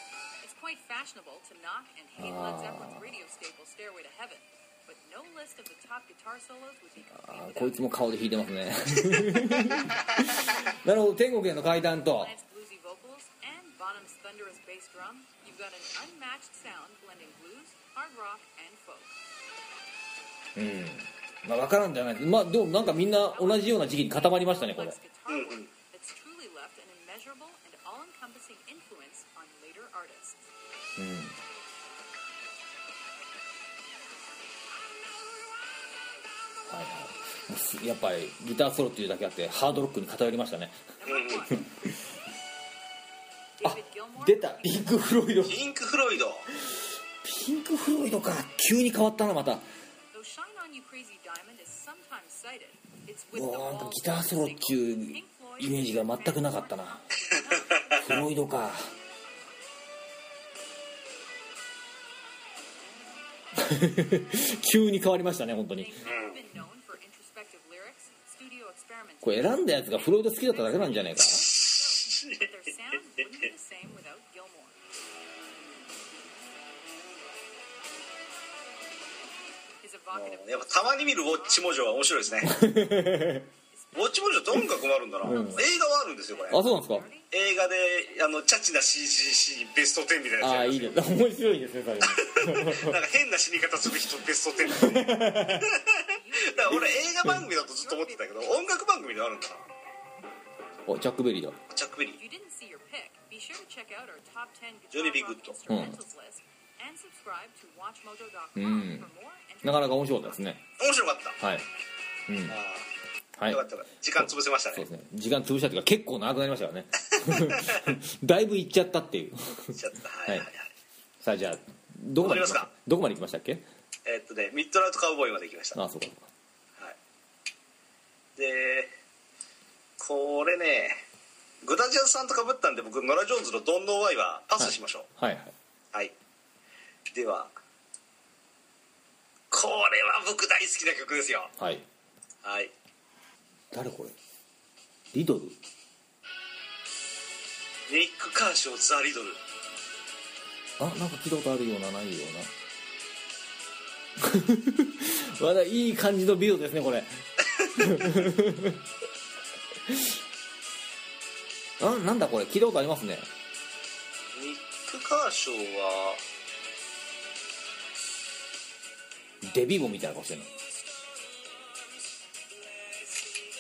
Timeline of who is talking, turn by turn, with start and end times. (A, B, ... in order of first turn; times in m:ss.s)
0:00.4-0:08.1 A
0:02.2-0:03.1 B
0:07.2-0:12.3 B
0:12.1-0:19.2 A
0:20.6-0:25.0 B
0:23.1-0:30.4 A
0:25.3-0:25.7 C
0:31.0-0:31.4 B
0:36.7-0:40.9 B
0:41.0-0:41.7 A
0:41.0-0:41.5 C
0:43.6-0:45.2 A
0:43.6-0:45.6 B
0:45.4-0:46.5 C
0:47.2-0:49.7 B
0:50.1-0:58.3 A
0:53.3-0:57.1 B
0:57.3-0:58.0 C
0:58.0-0:58.9 B
1:03.6-1:06.0 B
1:05.8-1:14.8 A
1:06.0-1:06.4 C
1:09.2-1:11.5 B
1:11.2-1:12.5 C
1:19.8-1:28.4 A
1:20.1-1:22.6 C
1:22.4-1:23.5 B
1:24.0-1:26.6 C
1:25.2-1:25.6 B
1:26.5-1:27.1 B
1:27.3-1:31.1 C
1:30.4-1:33.0 B
1:32.0-1:39.6 C
1:34.7-1:35.7 B
1:36.0-1:38.6 A
1:36.7-1:37.4 B
1:40.9-1:41.6 B
1:41.7-1:42.2 C
1:42.2-1:50.5 A
1:44.9-1:45.6 C
1:45.7-1:46.0 B
1:48.6-1:49.1 B
1:49.6-1:50.6 B
1:50.8-1:51.4 C
1:51.4-1:51.7 B
1:52.3-1:52.6 B
1:52.5-1:52.9 C
1:53.5-1:54.9 C
1:54.2-2:00.5 B
1:57.2-1:57.9 C
1:59.7-2:00.7 C
2:01.2-2:03.6 B
2:02.2-2:02.7 C
2:04.1-2:05.8 C
2:05.8-2:06.3 B
2:08.4-2:08.9 C
2:10.0-2:11.0 C
2:11.6-2:15.1 C
2:14.6-2:15.5 B
2:17.1-2:17.5 C
2:19.5-2:21.5 C
2:21.6-2:21.8 B
2:22.4-2:22.7 C
2:23.7-2:24.2 B
2:25.1-2:25.6 B
2:27.9-2:29.4 C
2:30.8-2:32.5 B
2:34.2-2:38.8 B
2:37.5-2:37.9 C
2:39.9-2:40.2 B
2:41.8-2:43.3 B
2:44.4-2:46.2 C
2:49.4-2:50.5 B